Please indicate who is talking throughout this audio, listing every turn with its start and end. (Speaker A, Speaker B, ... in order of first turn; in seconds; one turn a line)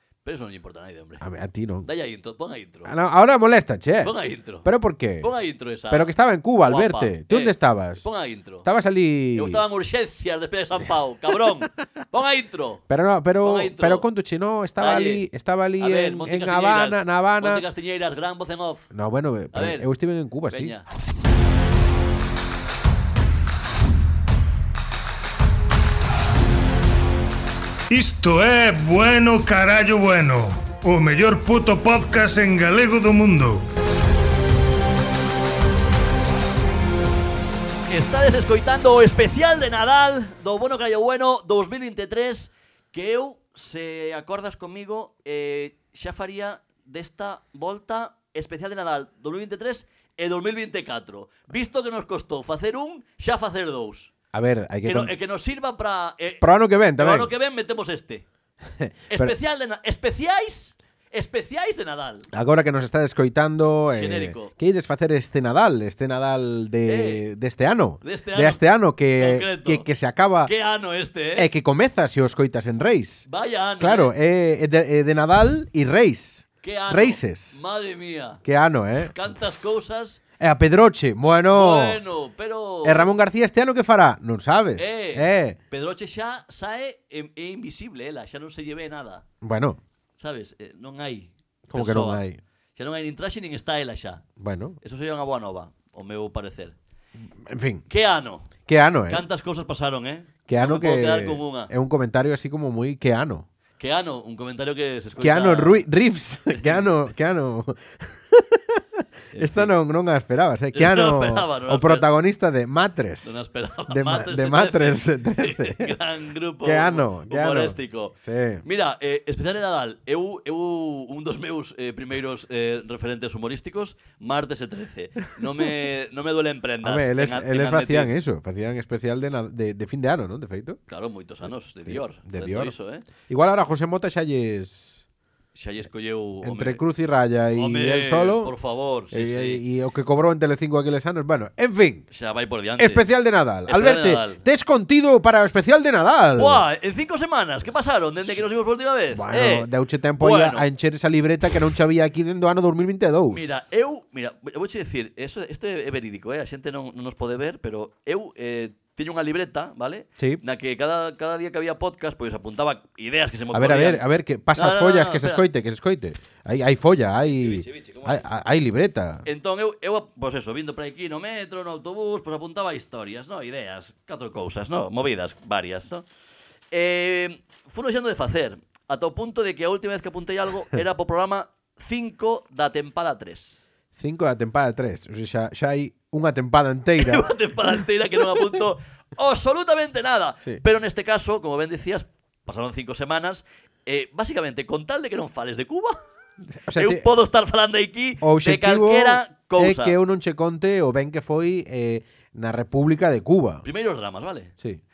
Speaker A: 0.2-1.2
Speaker B: 1.2-1.9
Speaker A: 1.9-2.9
Speaker B: 2.9-5.3
Speaker A: 4.0-4.7
Speaker A: 5.2-6.1
Speaker B: 5.9-8.1
Speaker A: 6.6-8.7
Speaker B: 8.6-9.6
Speaker A: 9.3-12.8
Speaker B: 12.9-17.6
Speaker A: 13.4-14.1
Speaker A: 14.8-15.3
Speaker A: 15.8-18.9
Speaker B: 18.9-20.8
Speaker A: 19.5-19.9
Speaker A: 20.5-20.9
Speaker C: 27.9-33.7
Speaker A: 37.9-54.1
Speaker B: 54.3-55.1
Speaker A: 54.8-58.2
Speaker B: 56.4-57.3
Speaker B: 58.8-59.3
Speaker A: 59.1-62.3
Speaker B: 62.3-70.5
Speaker A: 63.9-64.5
Speaker A: 66.9-67.2
Speaker A: 68.0-68.6
Speaker A: 69.2-69.9
Speaker A: 70.5-71.5
Speaker B: 71.4-73.3
Speaker A: 73.3-74.1
Speaker B: 73.8-77.6
Speaker A: 76.6-78.4
Speaker B: 78.4-79.2
Speaker A: 79.0-80.2
Speaker B: 80.4-82.0
Speaker A: 81.5-83.1
Speaker B: 82.8-85.6
Speaker A: 84.8-89.2
Speaker B: 89.4-89.8
Speaker A: 90.2-92.2
Speaker B: 91.7-92.4
Speaker A: 92.8-94.2
Speaker B: 94.4-94.8
Speaker A: 94.8-96.8
Speaker B: 97.5-97.8
Speaker A: 97.9-98.5
Speaker B: 98.7-99.2
Speaker A: 99.1-101.7
Speaker B: 100.5-103.5
Speaker A: 103.8-105.8
Speaker B: 105.2-116.0
Speaker A: 106.5-106.9
Speaker A: 109.3-109.7
Speaker A: 110.7-112.1
Speaker A: 113.2-128.1
Speaker B: 116.6-118.6
Speaker B: 126.8-130.8
Speaker A: 130.9-133.1
Speaker B: 131.9-132.8
Speaker B: 133.3-135.0
Speaker A: 135.6-136.8
Speaker B: 136.4-138.5
Speaker A: 137.5-139.6
Speaker B: 139.1-142.1
Speaker A: 142.1-143.1
Speaker B: 142.8-146.6
Speaker A: 143.7-144.4
Speaker A: 146.4-150.7
Speaker B: 149.1-153.5
Speaker A: 153.3-164.0
Speaker B: 163.5-169.2
Speaker A: 164.6-165.5
Speaker A: 167.3-168.2
Speaker A: 169.3-176.1
Speaker A: 176.7-183.6
Speaker B: 184.0-187.3
Speaker A: 187.0-196.0
Speaker B: 196.5-197.1
Speaker A: 196.7-200.0
Speaker B: 198.2-203.7
Speaker A: 203.6-204.5